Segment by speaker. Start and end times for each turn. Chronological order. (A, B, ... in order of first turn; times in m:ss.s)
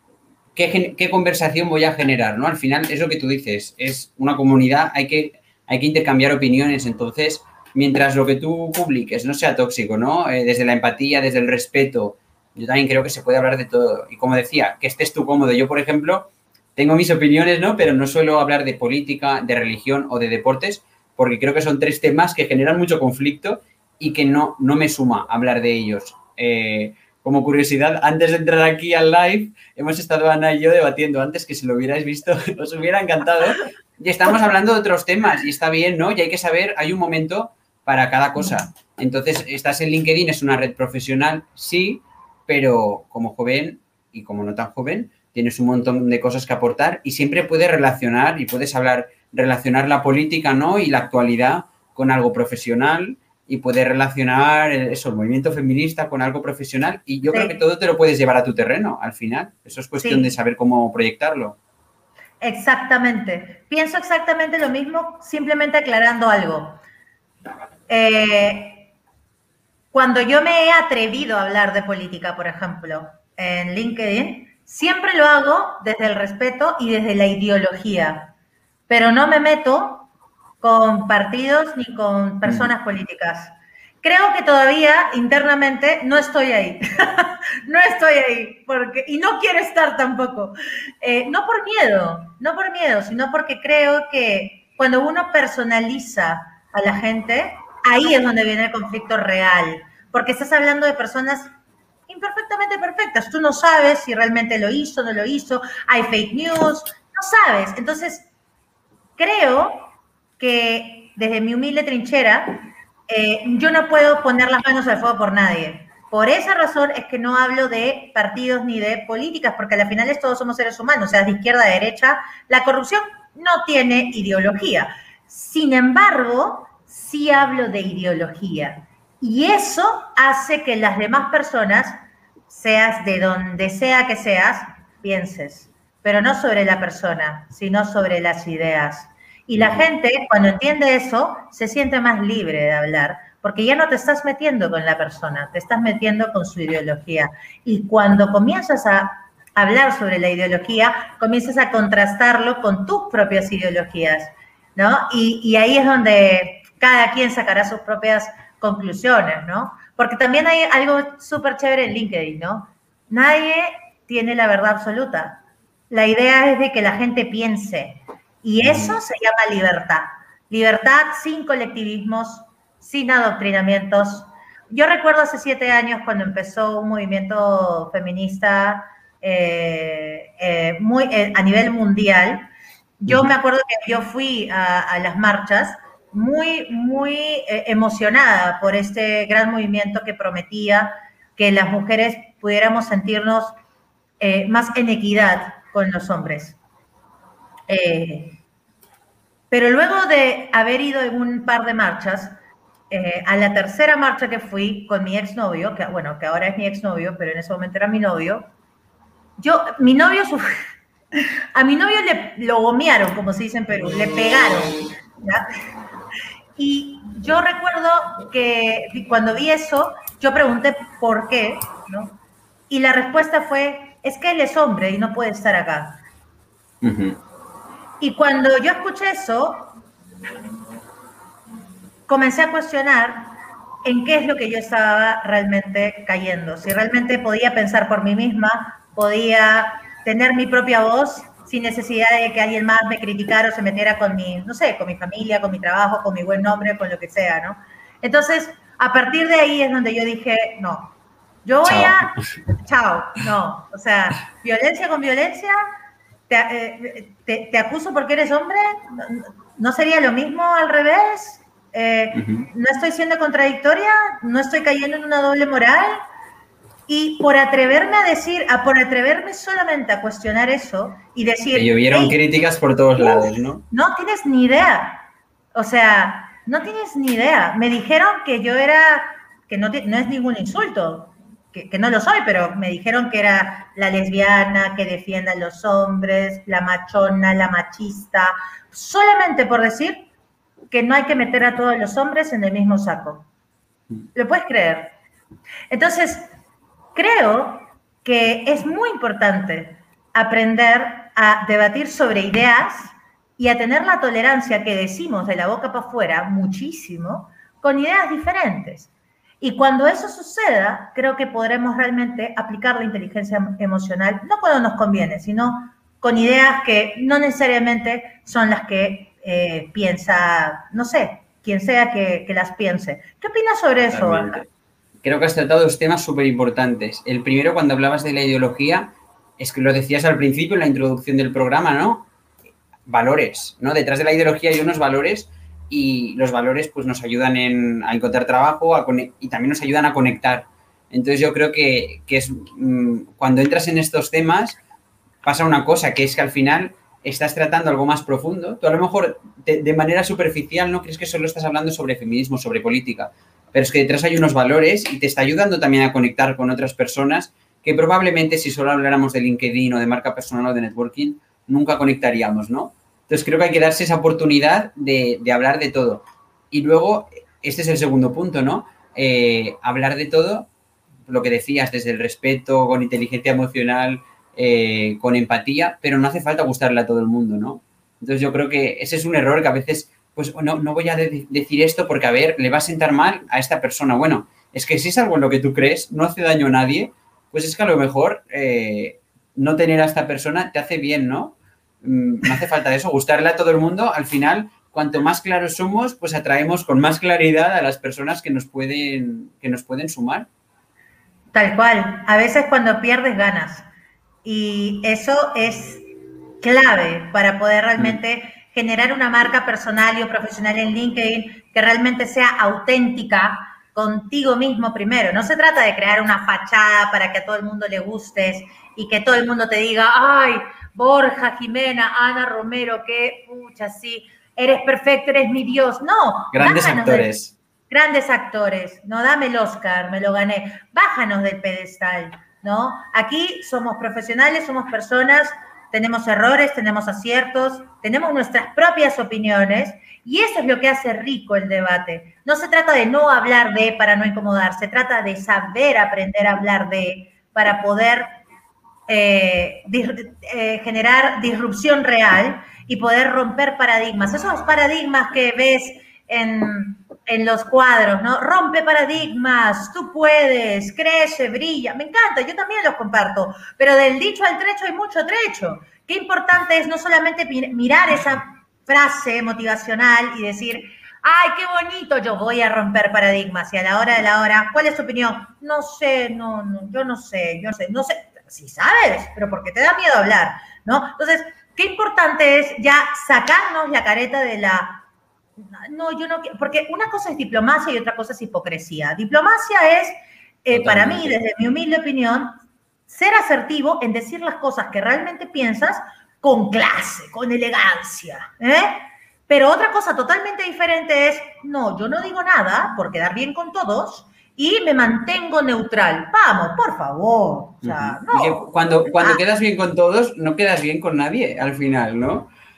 0:00.6-1:01.6 A
0:57.2-0:57.6 B
1:00.0-1:00.3 B
1:02.4-1:06.8 B
1:07.9-1:08.9 B
1:09.9-1:18.3 B
1:18.9-1:20.1 B
1:20.6-1:41.5 B
1:42.1-1:48.3 B
1:49.2-3:13.6 B
2:19.6-2:19.8 A
2:48.6-2:49.0 A
3:14.2-3:16.6 B
3:17.7-3:18.4 B
3:19.5-3:22.4 B
3:22.9-3:28.5 B
3:29.4-3:30.5 B
3:31.5-3:35.4 B
3:36.6-3:42.2 B
3:42.7-3:46.0 B
3:46.8-3:47.2 A
3:48.0-3:49.7 B
3:52.1-3:53.3 B
3:53.8-4:15.7 B
4:11.6-4:12.0 A
4:16.3-4:26.0 B
4:22.1-4:22.5 A
4:26.9-4:32.2 B
4:31.5-4:33.6 A
4:33.0-4:35.0 B
4:35.5-4:50.1 B
4:50.7-4:53.3 B
4:54.1-4:54.9 B
4:55.7-4:56.3 B
4:56.9-5:08.9 B
5:09.4-5:24.4 B
5:23.9-5:24.5 A
5:25.0-5:32.1 A
5:32.9-5:44.6 A
5:45.2-6:10.5 A
6:11.1-6:40.3 A
6:41.3-6:43.7 B
6:44.2-6:45.9 B
6:46.4-7:07.1 B
7:06.3-7:07.3 A
7:07.7-7:28.1 B
7:28.9-8:04.8 B
8:05.4-8:12.4 B
8:10.5-8:11.1 A
8:12.9-8:29.2 B
8:27.6-8:32.3 A